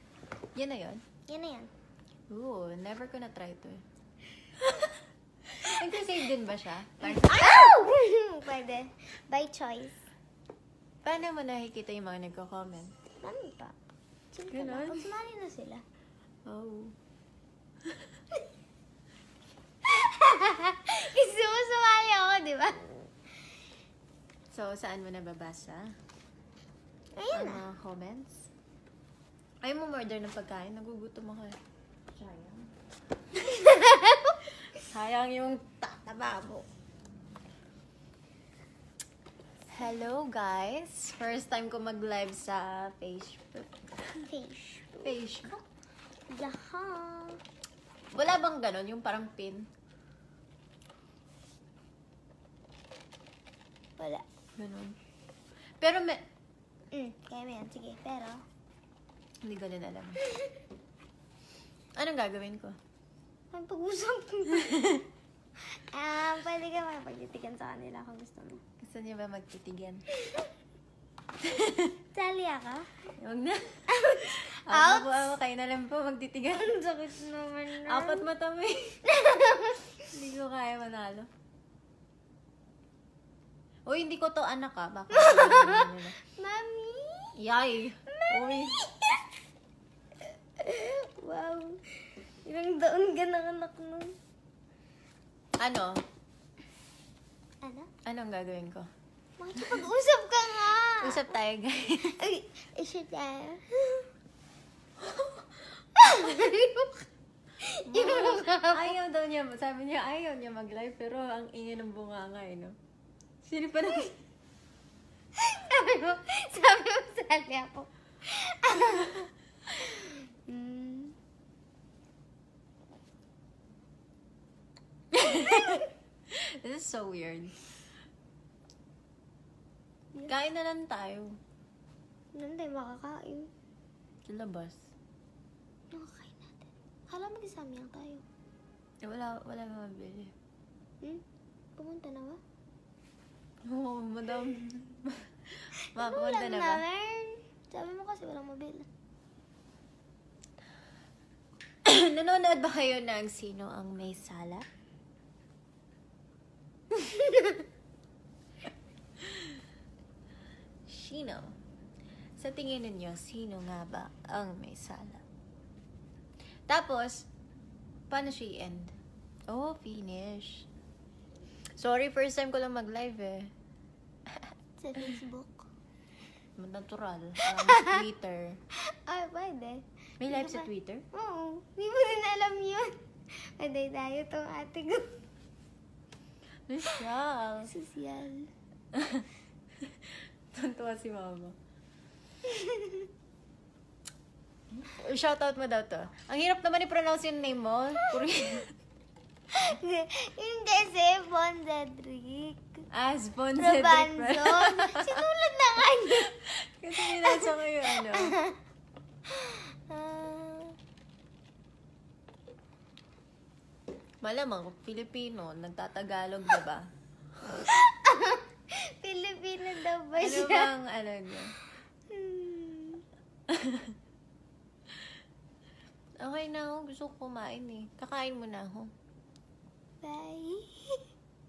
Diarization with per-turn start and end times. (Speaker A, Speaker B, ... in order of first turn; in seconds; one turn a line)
Speaker A: 0.5-1.0
Speaker B: 1.3-1.7
Speaker A: 2.3-3.8
Speaker A: 4.6-5.0
Speaker A: 5.6-7.7
Speaker B: 7.0-10.0
Speaker A: 11.0-12.9
Speaker B: 13.2-13.8
Speaker B: 14.3-15.8
Speaker A: 14.5-15.1
Speaker A: 16.4-16.9
Speaker B: 19.8-23.1
Speaker A: 24.5-25.9
Speaker B: 27.1-27.6
Speaker A: 27.3-28.5
Speaker A: 29.6-31.6
Speaker A: 32.1-32.7
Speaker B: 33.7-34.0
Speaker A: 34.7-36.6
Speaker A: 39.7-44.3
Speaker B: 44.3-45.6
Speaker A: 45.0-45.6
Speaker B: 46.3-47.4
Speaker A: 48.1-49.7
Speaker B: 54.0-54.2
Speaker A: 54.6-55.0
Speaker A: 55.8-56.2
Speaker B: 56.9-58.4
Speaker A: 59.4-60.2
Speaker A: 62.0-62.8
Speaker B: 63.5-65.0
Speaker A: 64.7-65.0
Speaker B: 65.6-68.6
Speaker A: 68.8-70.0
Speaker A: 71.4-72.0
Speaker B: 72.1-72.9
Speaker A: 73.1-76.7
Speaker B: 73.9-75.2
Speaker B: 76.5-78.3
Speaker A: 77.8-79.0
Speaker B: 79.1-79.9
Speaker A: 80.1-81.3
Speaker A: 83.8-86.2
Speaker B: 85.1-87.4
Speaker A: 87.4-88.8
Speaker B: 88.1-89.3
Speaker B: 90.6-94.2
Speaker A: 95.6-96.0
Speaker B: 97.6-97.9
Speaker A: 98.0-98.9
Speaker B: 99.4-101.3
Speaker A: 101.0-102.2
Speaker B: 102.2-104.1
Speaker B: 106.0-107.0
Speaker B: 107.6-108.9
Speaker A: 107.8-112.8
Speaker A: 113.4-114.1
Speaker B: 115.3-121.1
Speaker A: 125.1-127.7
Speaker A: 130.3-131.4
Speaker B: 132.3-133.5
Speaker A: 134.3-134.8
Speaker B: 135.9-138.2
Speaker A: 139.0-140.3
Speaker B: 141.8-142.4
Speaker A: 143.7-146.8
Speaker B: 145.9-148.9
Speaker A: 151.8-154.6
Speaker A: 160.9-161.5
Speaker A: 162.4-165.2
Speaker A: 166.7-167.3
Speaker A: 168.1-168.9
Speaker A: 169.5-170.7
Speaker A: 171.8-173.5
Speaker B: 174.8-175.7
Speaker A: 176.6-178.6
Speaker B: 177.5-178.0
Speaker B: 178.8-185.2
Speaker A: 180.2-181.0
Speaker A: 186.7-187.7
Speaker B: 187.7-188.5
Speaker A: 188.9-189.3
Speaker A: 189.8-191.6
Speaker B: 192.4-193.1
Speaker A: 194.7-198.7
Speaker B: 199.5-202.8
Speaker A: 202.9-205.2
Speaker B: 203.6-206.3
Speaker A: 206.2-208.3
Speaker B: 207.0-208.6
Speaker B: 209.2-210.8
Speaker A: 214.2-216.9
Speaker B: 217.6-220.7
Speaker A: 220.2-221.5
Speaker B: 222.1-223.0
Speaker A: 223.5-223.9
Speaker A: 226.2-228.9
Speaker B: 230.0-231.0